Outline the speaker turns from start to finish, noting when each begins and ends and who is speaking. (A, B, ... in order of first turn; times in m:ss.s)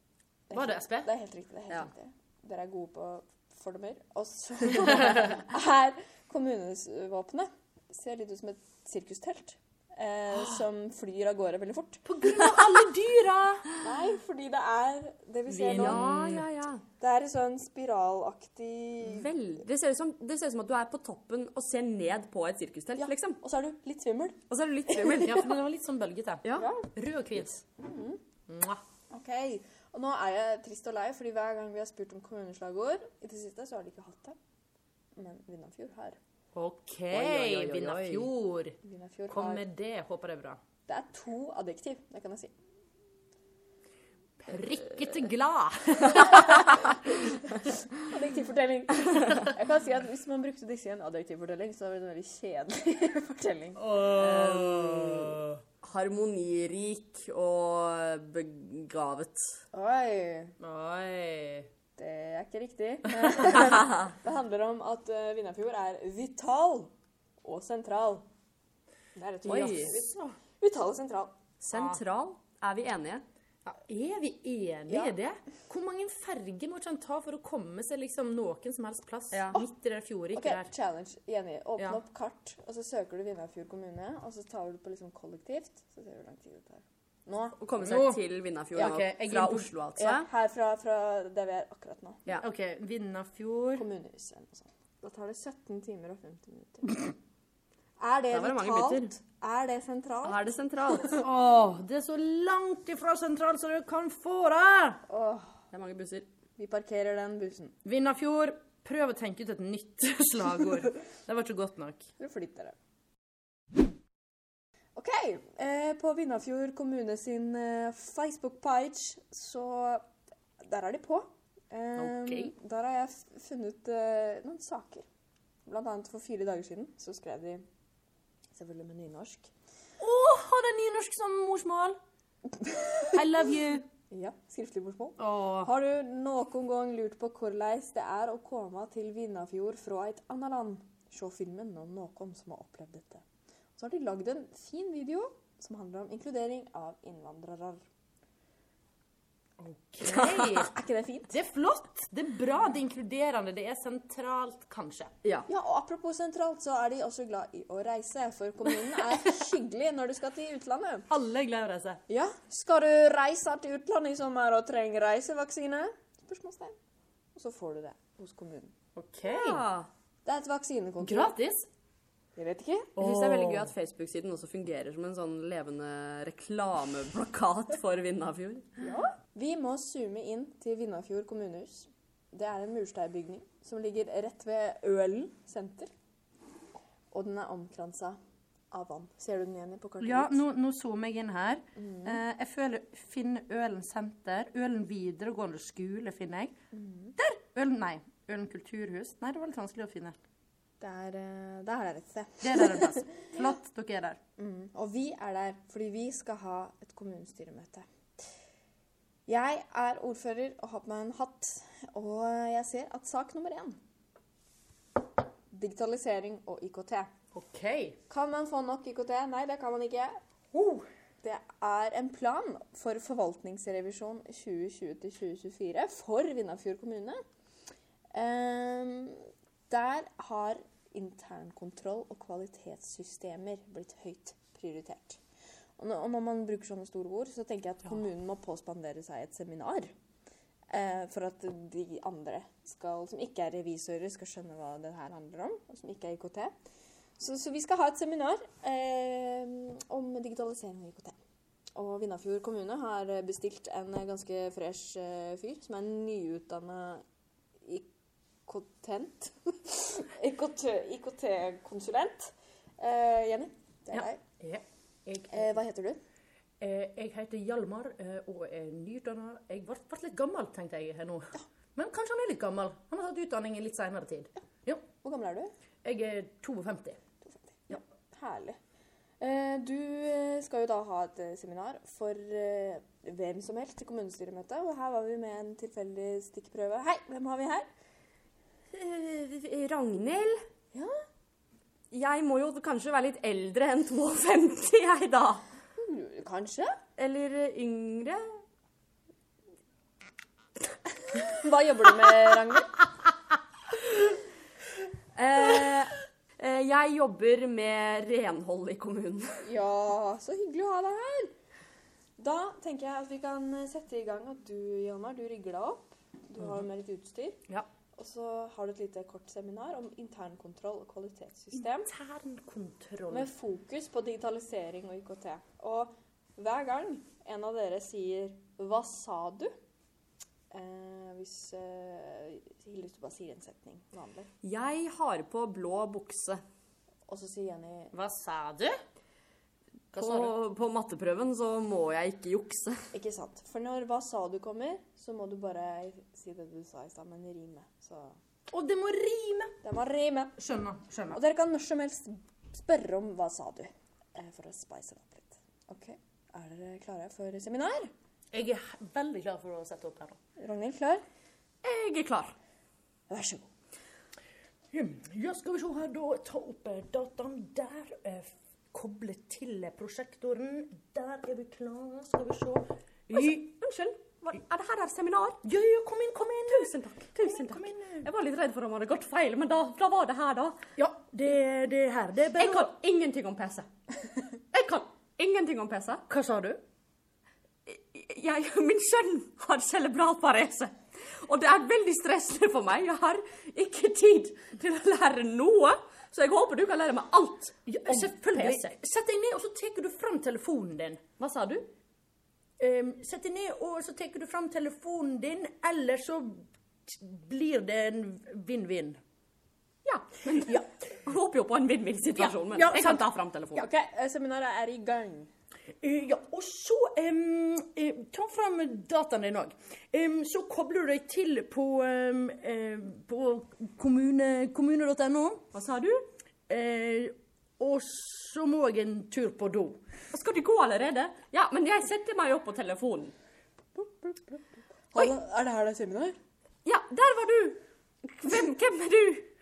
0:00.5-0:12.0 A
0:00.5-0:01.1 B
0:12.0-0:13.7 B
0:13.8-0:16.1 A
0:15.5-0:16.5 B
0:15.6-0:16.8 C
0:17.0-0:19.3 A
0:19.0-0:23.4 C
0:23.0-0:25.1 A
0:24.5-0:25.6 C
0:25.1-0:27.6 B
0:26.5-0:26.9 A
0:27.8-0:28.2 A
0:28.5-0:28.8 B
0:29.1-0:34.4 A
0:35.2-0:36.2 A
0:36.5-0:38.8 B
0:37.1-0:38.3 C
0:38.8-0:39.6 A
0:39.3-0:40.6 B
0:40.9-0:42.5 A
0:44.4-0:47.0 B
0:46.3-0:53.8 A
0:53.8-0:55.6 B
0:54.0-0:59.6 C
0:59.7-1:00.5 A
1:00.6-1:01.7 B
1:02.0-1:06.9 A
1:03.2-1:03.5 B
1:07.4-1:08.2 A
1:09.2-1:11.3 A
1:09.4-1:10.0 C
1:09.7-1:10.2 B
1:11.6-1:13.2 C
1:11.7-1:12.0 B
1:13.6-1:20.7 B
1:14.9-1:15.1 A
1:19.3-1:19.6 C
1:20.3-1:27.6 A
1:27.6-1:30.3 C
1:27.8-1:28.2 B
1:28.7-1:29.7 B
1:30.0-1:32.2 A
1:32.4-1:33.8 B
1:33.7-1:37.1 A
1:38.0-1:40.4 A
1:38.3-1:39.1 C
1:40.2-1:41.2 C
1:41.1-1:45.0 B
1:45.1-1:45.5 A
1:45.7-1:46.3 C
1:46.6-1:47.7 A
1:47.8-1:52.1 B
1:52.2-1:52.7 A
1:55.0-2:00.0 A
2:00.6-2:05.0 A
2:02.0-2:02.5 B
2:05.6-2:07.6 A
2:08.5-2:09.5 A
2:10.0-2:12.0 B
2:12.5-2:13.2 A
2:13.1-2:13.8 B
2:14.1-2:23.2 A
2:15.2-2:15.7 B
2:23.8-2:27.8 A
2:29.6-2:30.7 B
2:30.0-2:30.7 C
2:30.6-2:31.4 A
2:31.3-2:35.1 B
2:35.5-2:41.1 A
2:41.1-2:42.0 B
2:42.1-2:46.7 A
2:47.3-2:48.7 A
2:48.9-2:49.6 B
2:49.2-2:49.9 C
2:50.2-2:51.4 A
2:51.0-2:51.7 B
2:52.4-2:52.9 A
2:53.0-2:53.7 B
2:53.0-2:58.7 C
2:58.8-3:05.9 A
3:07.1-3:08.2 A
3:08.7-3:10.4 A
3:10.0-3:16.6 B
3:11.8-3:12.2 A
3:16.7-3:17.1 A
3:17.2-3:20.2 B
3:20.8-3:23.3 A
3:22.4-3:24.2 B
3:24.4-3:27.8 A
3:29.3-3:33.8 A
3:35.5-3:37.1 A
3:37.3-3:38.0 B
3:38.1-3:40.2 A
3:40.5-3:40.9 B
3:41.2-3:47.2 A
3:48.1-3:55.2 A
3:55.8-3:59.9 A
4:00.7-4:06.5 A
4:07.2-4:11.2 A
4:11.7-4:17.0 A
4:18.4-4:24.2 A
4:23.9-4:25.6 B
4:25.3-4:26.0 A
4:26.6-4:34.8 B
4:35.0-4:35.5 A
4:35.8-4:37.0 B
4:37.2-4:38.6 A
4:39.2-4:47.7 A
4:48.7-4:50.4 C
4:51.9-4:55.4 C
4:55.8-4:56.8 A
4:57.0-4:58.4 C
5:01.1-5:02.7 A
5:05.1-5:09.4 C
5:09.4-5:11.3 A
5:12.2-5:17.4 A
5:18.0-5:21.9 A
5:21.8-5:23.3 B
5:23.1-5:29.5 A
5:30.5-5:34.3 A
5:34.4-5:36.4 C
5:37.1-5:37.9 A
5:37.9-5:38.8 B
5:39.9-5:40.3 B
5:39.9-5:42.8 C
5:42.9-5:48.2 A
5:48.5-5:49.5 B
5:49.6-5:50.3 A
5:50.4-5:51.2 B
5:51.1-5:57.9 A
5:58.3-6:00.2 B
6:00.4-6:01.0 A
6:01.6-6:02.3 C
6:03.1-6:03.4 A
6:04.7-6:13.5 B
6:13.1-6:15.4 C
6:15.4-6:18.1 B
6:16.5-6:20.6 C
6:20.8-6:22.7 B
6:22.4-6:23.7 C
6:24.5-6:26.0 C
6:26.1-6:26.6 B
6:27.7-6:38.6 C
6:37.7-6:41.0 B
6:41.2-6:41.7 C
6:42.6-6:49.0 B
6:49.8-6:53.7 C
6:52.2-6:53.0 B
6:53.5-6:55.3 A
6:55.8-7:05.5 B
7:05.5-7:06.0 C
7:06.5-7:09.8 B
7:10.1-7:13.1 C
7:14.9-7:16.2 A
7:16.6-7:19.3 C